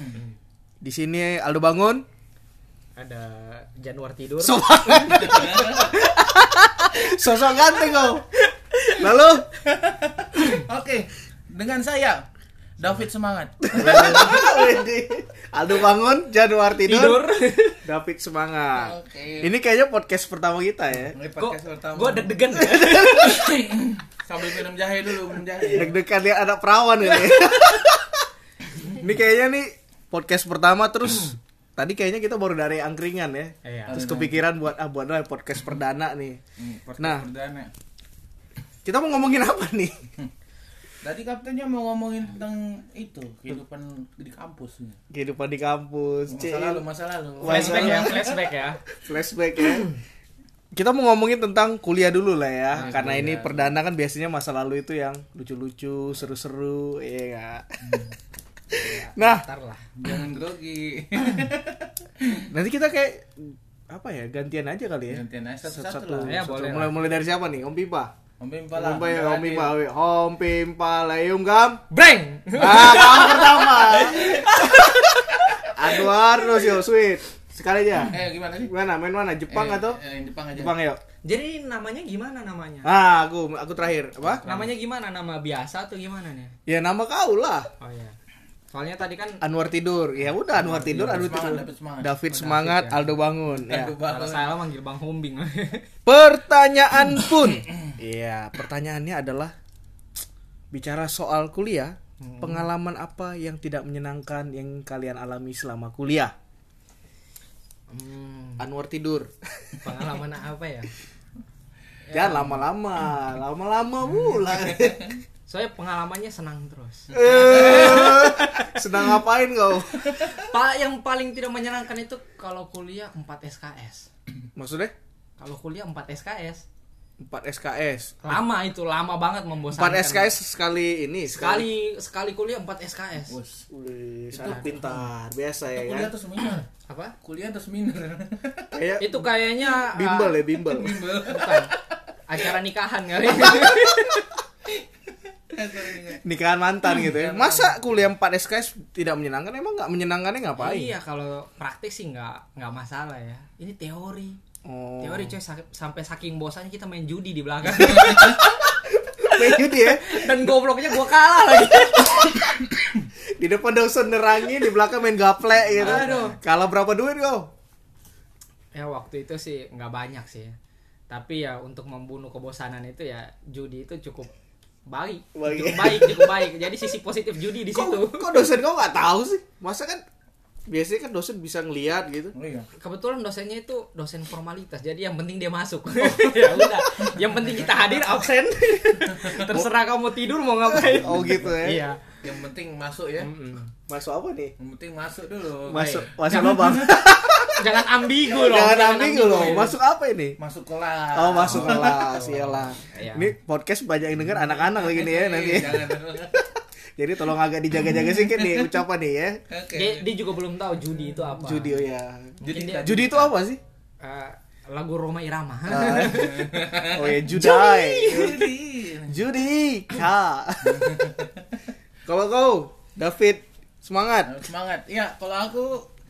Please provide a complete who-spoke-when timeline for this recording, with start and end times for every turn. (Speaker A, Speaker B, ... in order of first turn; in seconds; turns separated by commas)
Speaker A: 0.8-2.0, Speaker B: 3.0-5.5, Speaker A: 4.4-8.3, Speaker C: 5.1-5.9, Speaker A: 8.9-9.5, Speaker C: 9.7-12.2, Speaker C: 12.8-14.5, Speaker A: 13.7-17.2, Speaker B: 13.7-14.6, Speaker B: 16.8-17.8, Speaker A: 17.8-21.2, Speaker C: 18.7-19.5, Speaker C: 21.1-22.3, Speaker B: 21.4-23.5, Speaker A: 22.6-23.2, Speaker C: 23.1-25.9, Speaker A: 25.7-28.2, Speaker A: 28.9-36.4, Speaker B: 33.6-34.3, Speaker C: 33.9-34.3, Speaker C: 36.6-37.7, Speaker A: 37.0-37.2, Speaker A: 38.8-40.1, Speaker C: 41.0-45.0, Speaker A: 45.1-46.8, Speaker C: 46.3-48.5, Speaker A: 47.4-48.2, Speaker B: 47.5-48.8, Speaker A: 49.0-49.9, Speaker A: 50.7-58.0, Speaker C: 52.7-53.7, Speaker C: 57.8-58.1, Speaker A: 58.7-59.4, Speaker B: 58.7-59.8, Speaker C: 60.0-62.5, Speaker A: 62.5-68.1, Speaker C: 65.1-66.4, Speaker B: 66.2-67.0, Speaker C: 68.4-69.7, Speaker A: 68.8-71.8, Speaker B: 71.9-76.6, Speaker A: 72.5-80.0, Speaker C: 78.1-78.7, Speaker C: 79.5-80.7, Speaker A: 80.5-81.0, Speaker B: 81.2-82.9, Speaker A: 82.8-84.4, Speaker C: 84.3-84.7, Speaker B: 84.4-86.5, Speaker A: 86.7-87.7, Speaker B: 87.8-88.1, Speaker B: 88.7-89.4, Speaker A: 89.4-94.0, Speaker B: 90.5-91.6, Speaker C: 90.8-92.1, Speaker B: 92.3-93.1, Speaker C: 93.5-94.5, Speaker B: 94.0-95.9, Speaker A: 96.0-99.5, Speaker A: 100.7-106.3, Speaker B: 102.2-102.7, Speaker B: 107.9-108.6, Speaker A: 108.6-109.8, Speaker B: 109.8-110.9, Speaker B: 112.1-112.6, Speaker A: 112.1-115.2, Speaker B: 115.5-118.8, Speaker A: 117.1-120.4, Speaker C: 117.1-118.1, Speaker B: 120.2-124.1, Speaker A: 124.5-124.9, Speaker B: 125.4-126.6, Speaker A: 127.2-128.4, Speaker B: 128.2-130.3, Speaker A: 129.7-131.7, Speaker B: 131.3-133.3, Speaker C: 133.3-133.6, Speaker A: 133.7-136.1, Speaker C: 134.3-135.0, Speaker B: 134.4-134.7, Speaker C: 135.7-136.7, Speaker B: 136.8-137.1, Speaker C: 137.2-138.7, Speaker A: 138.7-141.0, Speaker B: 139.0-140.4, Speaker C: 140.6-141.8, Speaker B: 141.2-141.7, Speaker B: 142.3-144.3, Speaker C: 145.5-146.2, Speaker A: 146.2-150.9, Speaker C: 146.9-147.8, Speaker B: 150.6-154.4, Speaker A: 154.6-155.3, Speaker B: 155.0-158.5, Speaker C: 157.8-158.2, Speaker A: 157.9-160.5, Speaker B: 159.3-162.5, Speaker A: 162.0-162.4, Speaker A: 163.3-167.5, Speaker B: 165.8-166.4, Speaker C: 165.8-166.3, Speaker B: 168.7-170.6, Speaker B: 171.1-174.3, Speaker B: 174.9-178.4, Speaker A: 175.3-176.4, Speaker A: 177.7-180.0, Speaker A: 180.7-182.3, Speaker C: 182.3-182.7, Speaker B: 182.8-192.0, Speaker C: 189.2-189.4, Speaker A: 190.7-191.8, Speaker C: 192.2-193.3, Speaker B: 193.2-193.7, Speaker A: 193.7-194.5, Speaker C: 194.6-197.0, Speaker A: 195.7-200.4, Speaker B: 197.4-199.7, Speaker C: 199.3-199.7, Speaker C: 200.4-202.5, Speaker A: 201.1-209.4, Speaker B: 201.8-203.3, Speaker C: 204.6-206.4, Speaker C: 207.9-208.7, Speaker C: 209.5-210.1, Speaker B: 209.7-211.8, Speaker A: 211.3-213.6, Speaker C: 212.4-213.3, Speaker B: 212.4-212.9, Speaker B: 214.0-216.6, Speaker A: 215.7-218.5, Speaker C: 215.9-217.2, Speaker B: 217.3-218.4, Speaker C: 218.0-219.2, Speaker A: 219.1-220.9, Speaker C: 220.6-221.5, Speaker A: 222.1-224.3, Speaker C: 224.2-225.9